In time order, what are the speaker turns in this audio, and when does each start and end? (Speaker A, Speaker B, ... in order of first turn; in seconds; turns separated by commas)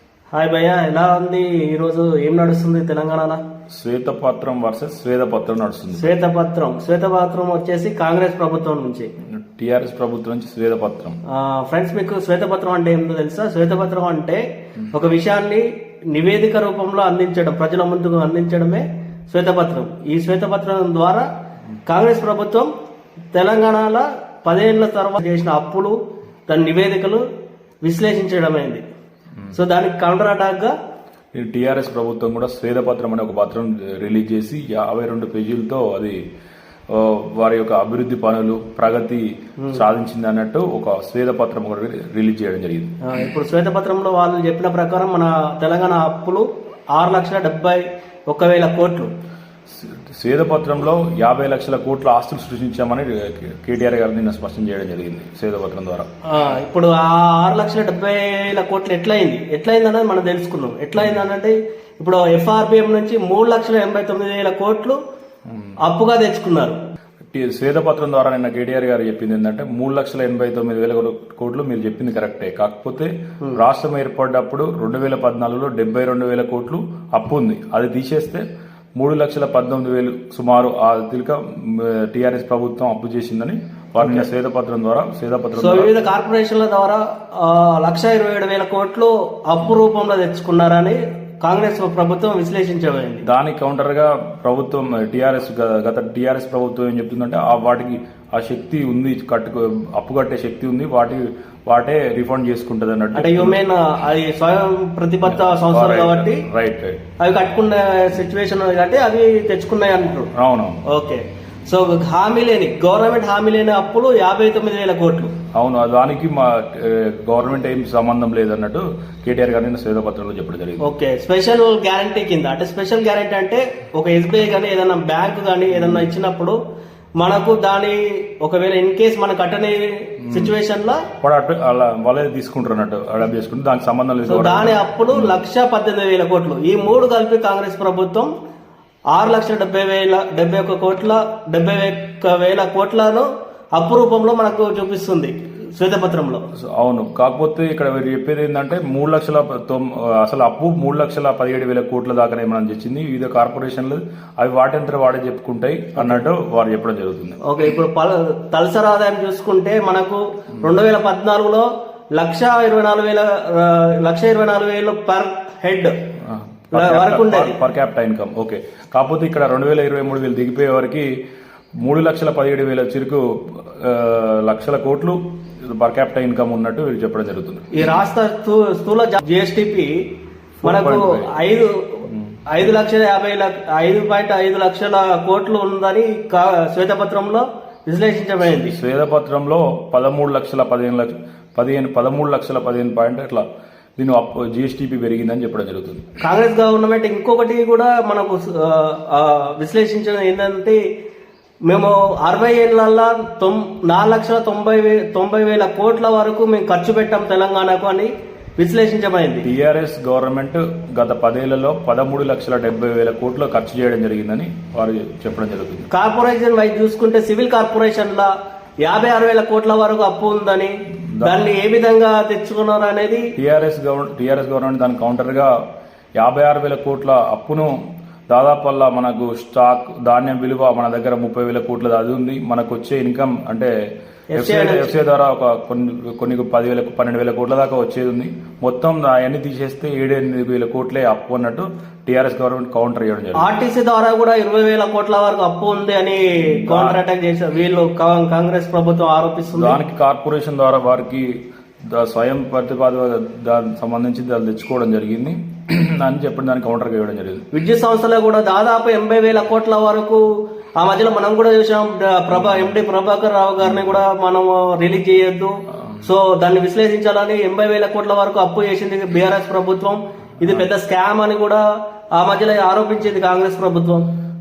Speaker A: 0.3-3.4, Speaker B: 3.7-6.1, Speaker A: 6.0-9.1, Speaker B: 9.3-11.2, Speaker A: 11.3-21.3, Speaker A: 21.9-22.7, Speaker A: 23.3-26.0, Speaker A: 26.5-27.2, Speaker A: 27.8-28.8, Speaker A: 29.5-30.7, Speaker B: 31.3-36.2, Speaker B: 36.9-43.0, Speaker A: 43.0-49.1, Speaker B: 49.8-56.1, Speaker A: 56.3-65.0, Speaker A: 65.8-66.8, Speaker B: 67.3-78.5, Speaker B: 79.0-85.9, Speaker A: 85.6-93.2, Speaker B: 93.2-103.6, Speaker A: 103.2-106.5, Speaker B: 105.3-107.0, Speaker A: 107.2-110.3, Speaker B: 110.3-110.8, Speaker A: 110.8-115.3, Speaker B: 115.5-120.8, Speaker A: 120.8-126.6, Speaker A: 127.2-131.1, Speaker B: 131.2-135.4, Speaker A: 134.3-138.3, Speaker A: 139.1-146.4, Speaker B: 146.7-157.4, Speaker A: 156.0-156.2, Speaker A: 157.4-165.9, Speaker B: 166.2-171.1, Speaker A: 166.7-167.6, Speaker B: 171.8-177.7, Speaker A: 177.7-180.1, Speaker B: 180.6-181.3, Speaker A: 180.6-188.7, Speaker B: 188.5-193.4, Speaker B: 194.0-196.1, Speaker A: 196.2-200.8, Speaker A: 201.7-209.5, Speaker B: 209.4-215.9, Speaker A: 215.9-218.3, Speaker A: 218.8-223.3, Speaker B: 223.4-225.5, Speaker B: 226.2-227.7, Speaker B: 228.3-233.7, Speaker A: 234.3-234.9, Speaker B: 234.4-243.5, Speaker A: 243.4-249.8, Speaker B: 246.4-247.0, Speaker B: 249.5-251.3, Speaker B: 251.9-257.5, Speaker A: 257.5-260.2, Speaker A: 260.8-271.6, Speaker A: 272.1-274.1